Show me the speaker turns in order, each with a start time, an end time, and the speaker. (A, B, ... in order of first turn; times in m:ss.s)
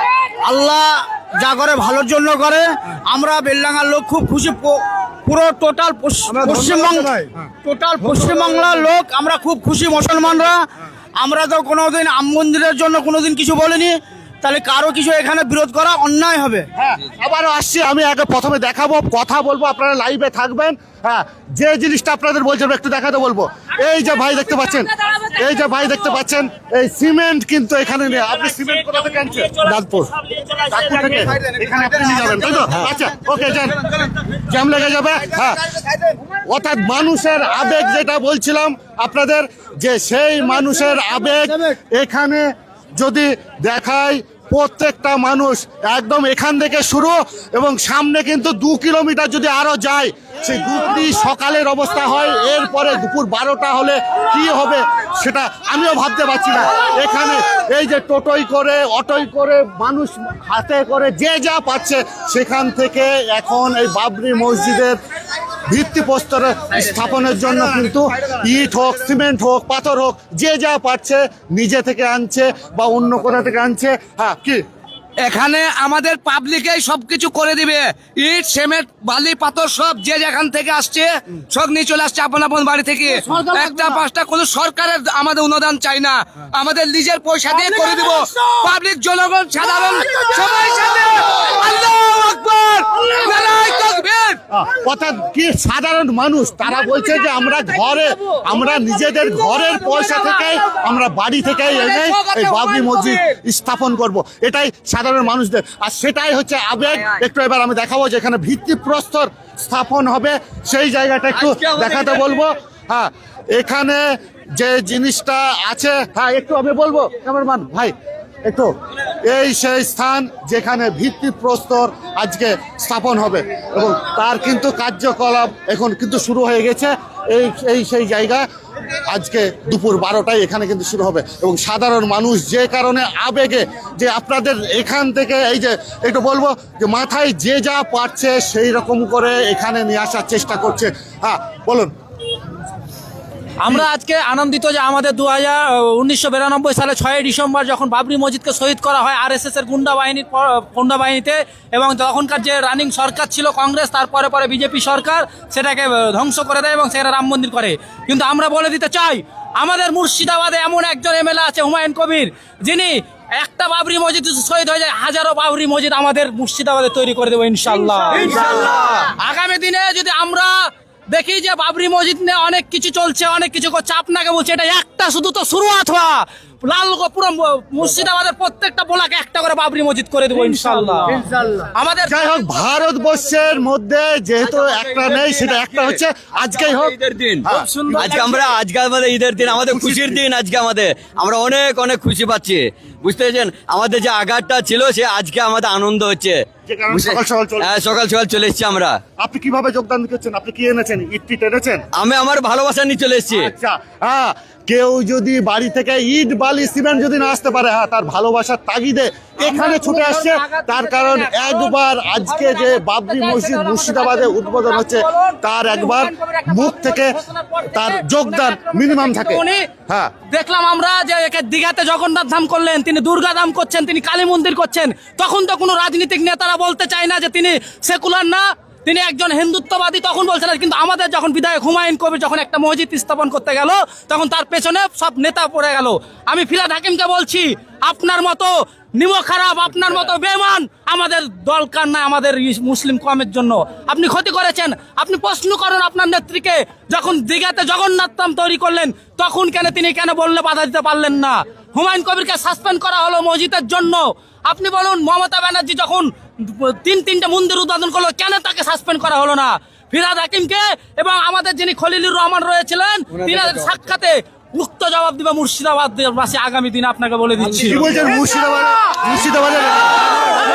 0:00.4-0:10.6 A
0:11.2-0:16.7 A
0:16.8-0:35.6 B
0:36.4-1:05.0 B
1:05.7-1:14.6 B
1:15.2-1:34.4 C
1:34.5-1:57.9 B
1:51.3-1:52.4 D
1:58.4-1:58.7 B
1:59.2-2:08.5 B
2:09.1-2:21.9 B
2:23.6-2:48.4 E
2:48.1-2:49.1 D
2:49.2-2:50.6 E
2:51.1-3:01.2 E
3:01.7-3:02.2 E
3:02.1-3:08.3 B
3:04.5-3:06.0 D
3:06.5-3:19.0 D
3:09.6-3:10.2 B
3:16.7-3:17.7 B
3:19.2-3:21.8 B
3:21.9-3:23.5 D
3:23.4-3:37.2 B
3:29.4-3:39.7 E
3:37.7-3:40.1 B
3:40.3-4:27.8 E
4:27.5-4:30.0 B